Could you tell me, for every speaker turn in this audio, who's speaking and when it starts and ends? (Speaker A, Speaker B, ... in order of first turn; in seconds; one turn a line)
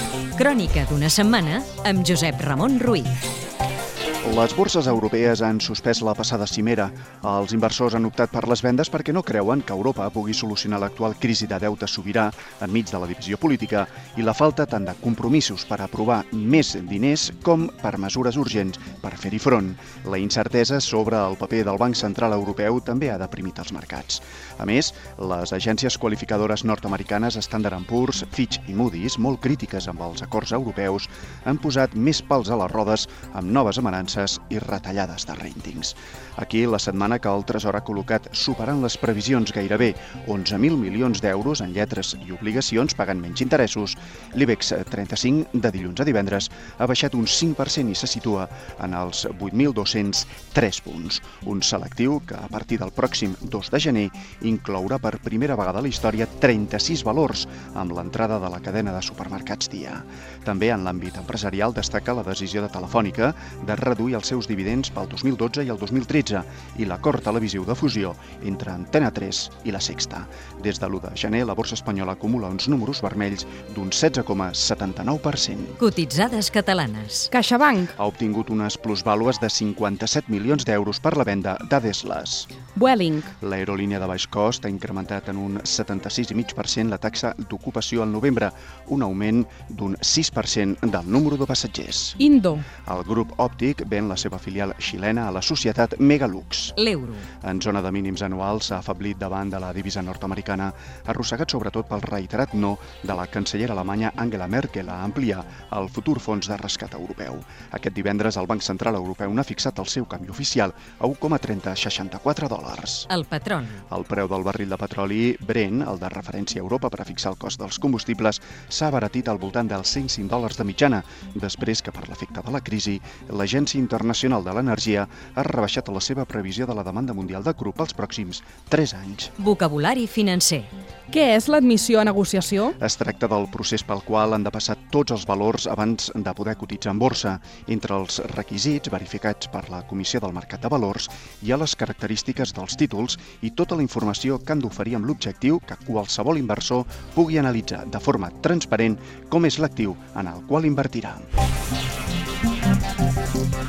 Speaker A: 0.3-3.1
Speaker B: 4.2-75.8
Speaker A: 75.8-77.3
Speaker C: 77.3-77.9
Speaker B: 77.9-82.5
Speaker C: 82.7-83.3
Speaker B: 83.4-92.2
Speaker C: 92.2-92.7
Speaker B: 92.8-96.8
Speaker A: 96.8-97.2
Speaker B: 97.4-113.1
Speaker A: 113.1-113.8
Speaker B: 113.9-129.3
Speaker A: 129.4-130.7
Speaker C: 131.1-132.8
Speaker B: 132.8-151.3